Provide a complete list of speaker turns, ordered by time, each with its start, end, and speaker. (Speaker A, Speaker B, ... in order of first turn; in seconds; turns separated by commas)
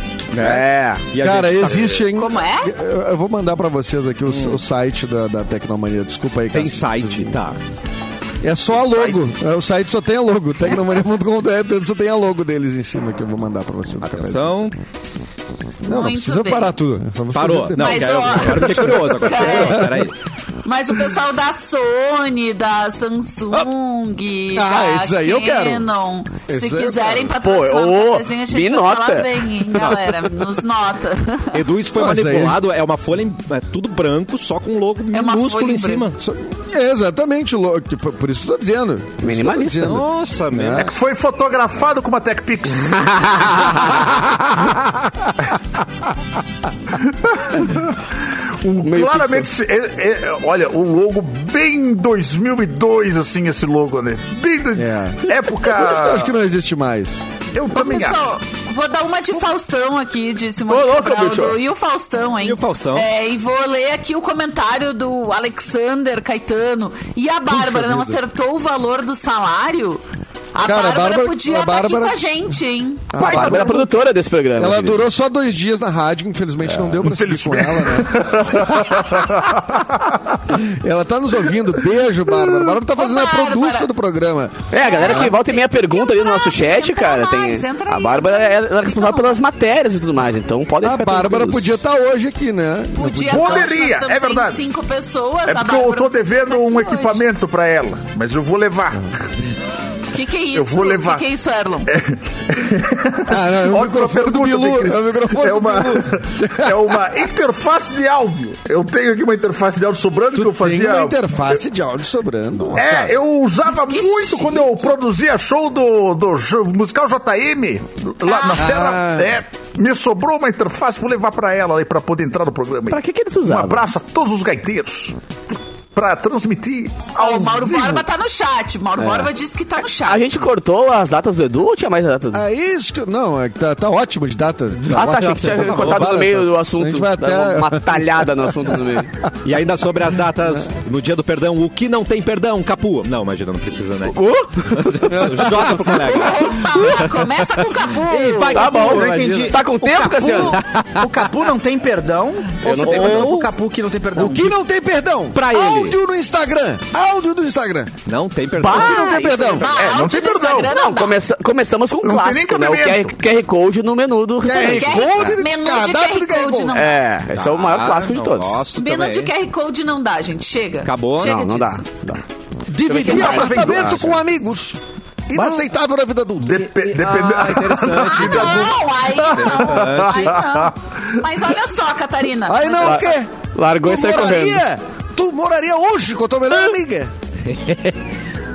Speaker A: 0.3-2.1, Speaker B: 0.4-1.0, Speaker C: 1.2-7.4, Speaker D: 2.1-2.7, Speaker A: 4.3-4.6, Speaker A: 6.5-7.6, Speaker C: 8.4-14.5, Speaker A: 14.0-14.8, Speaker D: 15.8-16.8, Speaker C: 15.8-20.1, Speaker A: 17.3-20.1, Speaker D: 17.8-19.9, Speaker D: 20.6-31.6, Speaker C: 24.5-25.9, Speaker C: 26.5-27.3, Speaker B: 27.4-30.0, Speaker A: 31.5-36.2, Speaker C: 31.9-32.6, Speaker D: 35.1-36.1, Speaker C: 36.2-40.9, Speaker B: 39.2-40.0, Speaker A: 39.8-40.9, Speaker E: 40.7-43.7, Speaker B: 42.9-44.1, Speaker E: 47.0-48.0, Speaker E: 48.6-56.3, Speaker B: 48.8-49.5, Speaker C: 54.8-57.2, Speaker E: 57.5-58.3, Speaker D: 57.7-70.0, Speaker B: 60.7-61.6, Speaker A: 62.4-63.1, Speaker C: 67.5-68.2, Speaker D: 70.5-73.1, Speaker C: 70.6-72.4, Speaker C: 73.1-73.9, Speaker E: 73.2-73.8, Speaker B: 73.2-75.0, Speaker C: 74.6-79.3, Speaker E: 77.0-80.4, Speaker C: 80.5-85.3, Speaker D: 82.9-83.9, Speaker B: 84.7-91.7, Speaker D: 84.8-89.4, Speaker C: 90.8-93.7, Speaker D: 92.9-97.2, Speaker E: 93.3-94.6, Speaker E: 95.5-99.1, Speaker D: 100.1-101.9, Speaker E: 100.5-101.2, Speaker E: 101.8-111.6, Speaker C: 103.3-107.0, Speaker C: 110.3-113.1, Speaker E: 112.7-125.2, Speaker D: 113.7-114.9, Speaker D: 118.2-118.8, Speaker C: 118.5-119.3, Speaker B: 122.9-123.9, Speaker E: 125.9-128.1, Speaker D: 127.2-130.2, Speaker B: 129.0-129.3, Speaker B: 130.0-132.4, Speaker C: 132.3-139.1, Speaker B: 134.9-139.1, Speaker A: 134.9-136.2, Speaker A: 139.4-147.2, Speaker B: 144.1-145.5, Speaker C: 145.1-146.1, Speaker D: 146.1-148.9, Speaker A: 147.9-151.2, Speaker B: 148.4-150.6, Speaker F: 148.8-154.5, Speaker B: 152.6-153.4, Speaker A: 152.6-153.5, Speaker C: 154.1-157.9, Speaker A: 155.3-156.0, Speaker A: 158.1-159.9, Speaker B: 158.6-159.5, Speaker C: 158.6-159.7, Speaker D: 158.8-161.2, Speaker E: 159.7-160.7, Speaker B: 160.6-165.3, Speaker E: 162.0-163.1, Speaker C: 164.4-166.8, Speaker D: 164.5-167.0, Speaker B: 166.7-168.6, Speaker A: 167.3-169.3, Speaker D: 168.7-171.8, Speaker A: 170.8-171.4, Speaker B: 171.2-172.2, Speaker C: 172.7-176.7, Speaker B: 172.8-174.1, Speaker E: 172.9-174.2, Speaker B: 175.3-175.6, Speaker E: 176.4-180.7, Speaker A: 176.6-178.8, Speaker D: 178.0-183.2, Speaker A: 179.3-180.3, Speaker C: 182.5-183.3, Speaker B: 182.8-184.6, Speaker C: 183.8-187.1, Speaker A: 187.4-188.0